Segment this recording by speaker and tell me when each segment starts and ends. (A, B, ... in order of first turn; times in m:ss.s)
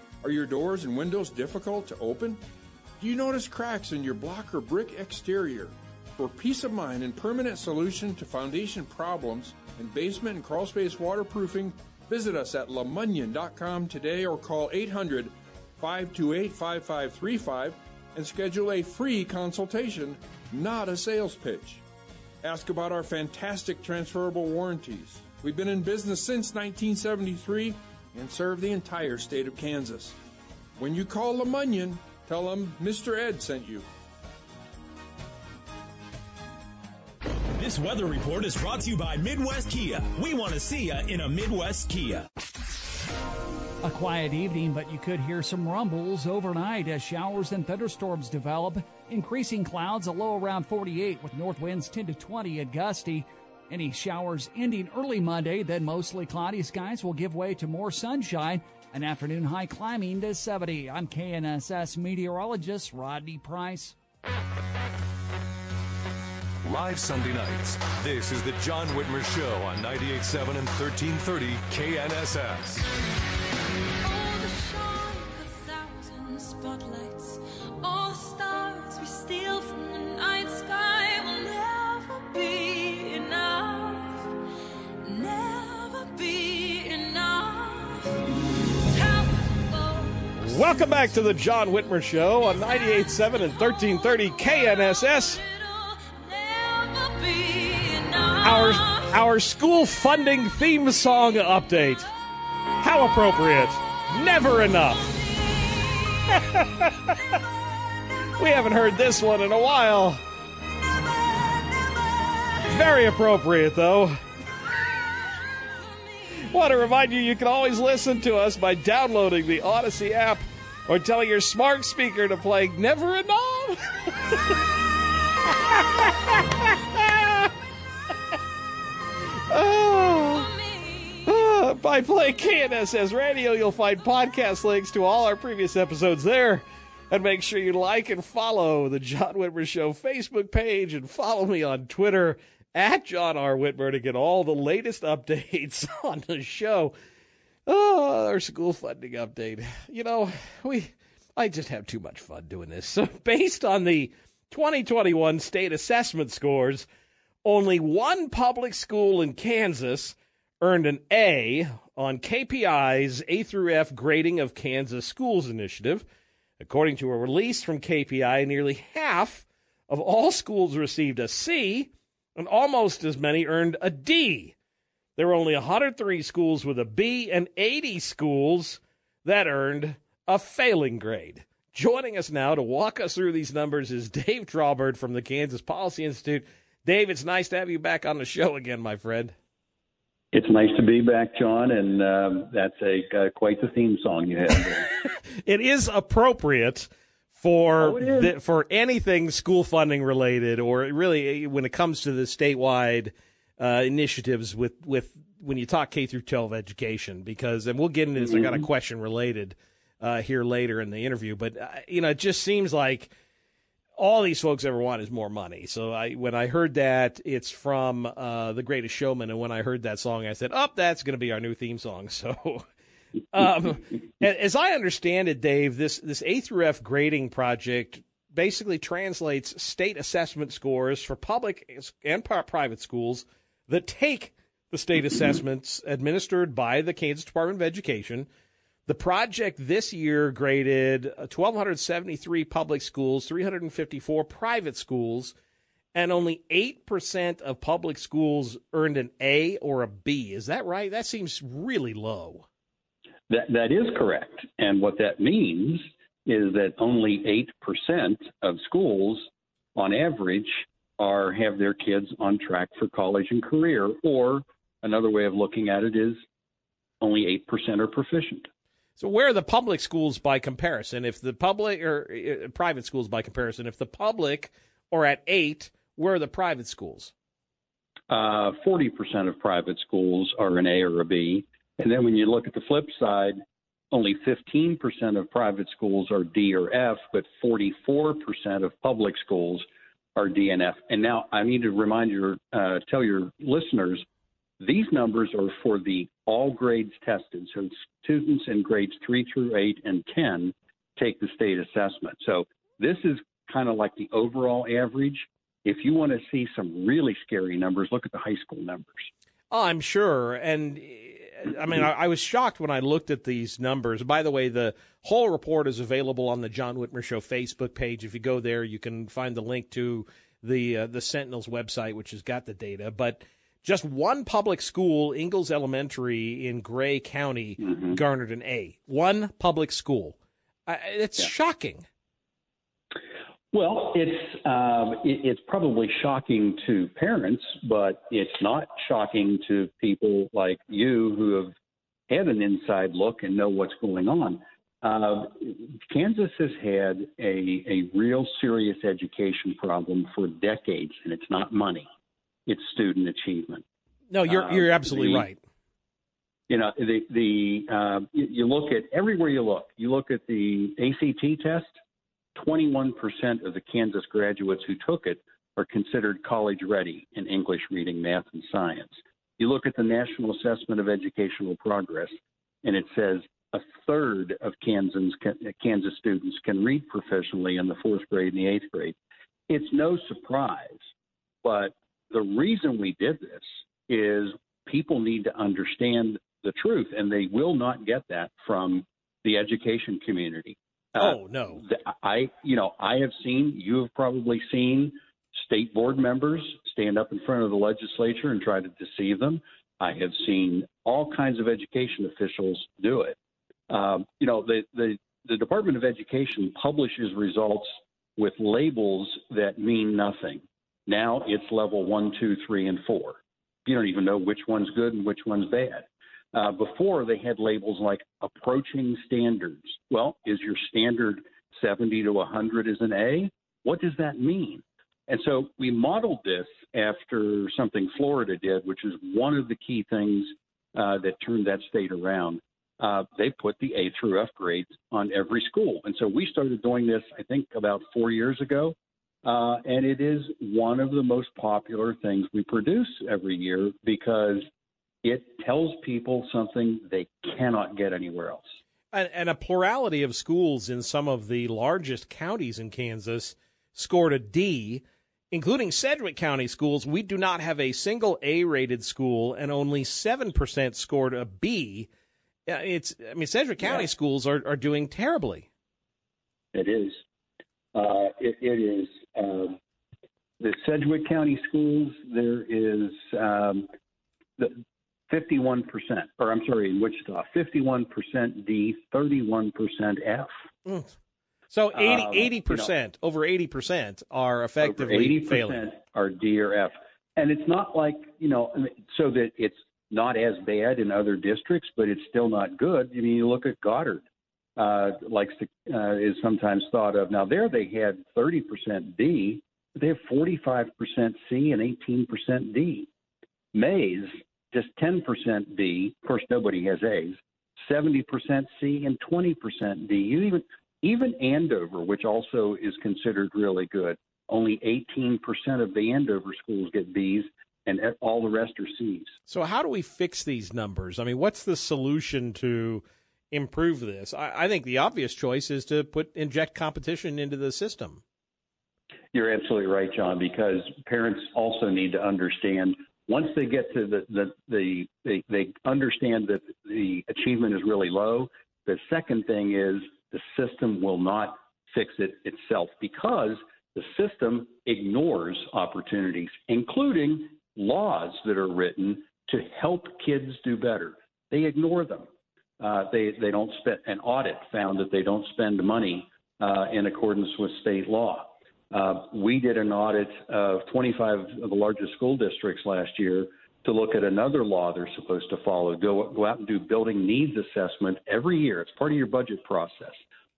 0:00.2-0:02.4 A
0:03.0-0:21.8 A
0:22.4-0:30.1 A
0:30.8-0:33.8 A
0:37.5-0:42.3 B
0:43.8-1:03.9 C
1:06.6-1:12.8 D
1:14.0-1:24.3 E
1:25.0-1:28.2 E
1:28.9-1:31.6 E
1:30.4-1:35.4 F
1:32.3-1:39.2 E
1:38.4-1:42.1 F
1:42.8-1:45.2 F
1:45.5-1:46.3 E
1:46.3-1:47.2 F
1:48.4-1:50.2 F
1:51.4-1:52.6 E
1:52.6-1:54.2 F
1:54.9-1:56.4 E
1:56.5-2:04.4 F
2:05.7-2:07.5 F
2:09.5-2:10.5 F
2:10.3-2:11.3 E
2:11.3-2:26.9 F
2:27.7-2:36.8 F
2:37.4-2:46.0 F
2:46.6-2:54.5 F
2:55.2-3:09.3 F
3:10.3-3:14.9 G
3:15.4-3:33.1 F
3:17.8-3:18.3 G
3:28.2-3:28.6 G
3:34.0-3:42.6 F
3:43.3-3:58.3 F
3:58.9-4:05.3 F
4:05.9-4:12.4 F
4:13.3-4:26.2 G
4:27.0-4:28.5 G
4:29.0-4:37.1 F
4:38.1-4:43.4 G
4:43.9-4:49.6 G
4:50.2-4:54.0 G
4:54.6-5:09.1 G
5:09.5-5:30.2 F
5:27.6-5:28.0 G
5:30.7-5:31.8 F
5:33.5-5:41.5 G
5:42.1-5:51.9 G
5:52.5-5:53.6 G
5:54.1-5:55.4 F
5:54.2-5:55.3 G
5:56.5-6:01.7 G
6:02.4-6:18.9 G
6:19.5-6:20.8 G
6:21.4-6:43.2 G
6:31.0-6:31.6 F
6:43.7-7:24.4 G
7:25.0-7:28.5 G
7:28.9-7:41.9 F
7:42.5-7:45.5 F
7:43.6-7:43.8 G
7:46.5-7:47.0 G
7:47.7-7:49.6 G
7:50.4-7:53.7 G
7:54.4-8:00.3 G
8:00.6-8:00.9 F
8:01.5-8:05.7 F
8:01.7-8:02.7 G
8:04.6-8:14.0 G
8:14.6-8:22.9 G
8:23.5-8:39.1 G
8:39.3-8:48.0 F
8:49.1-9:12.1 G
9:12.6-9:30.0 G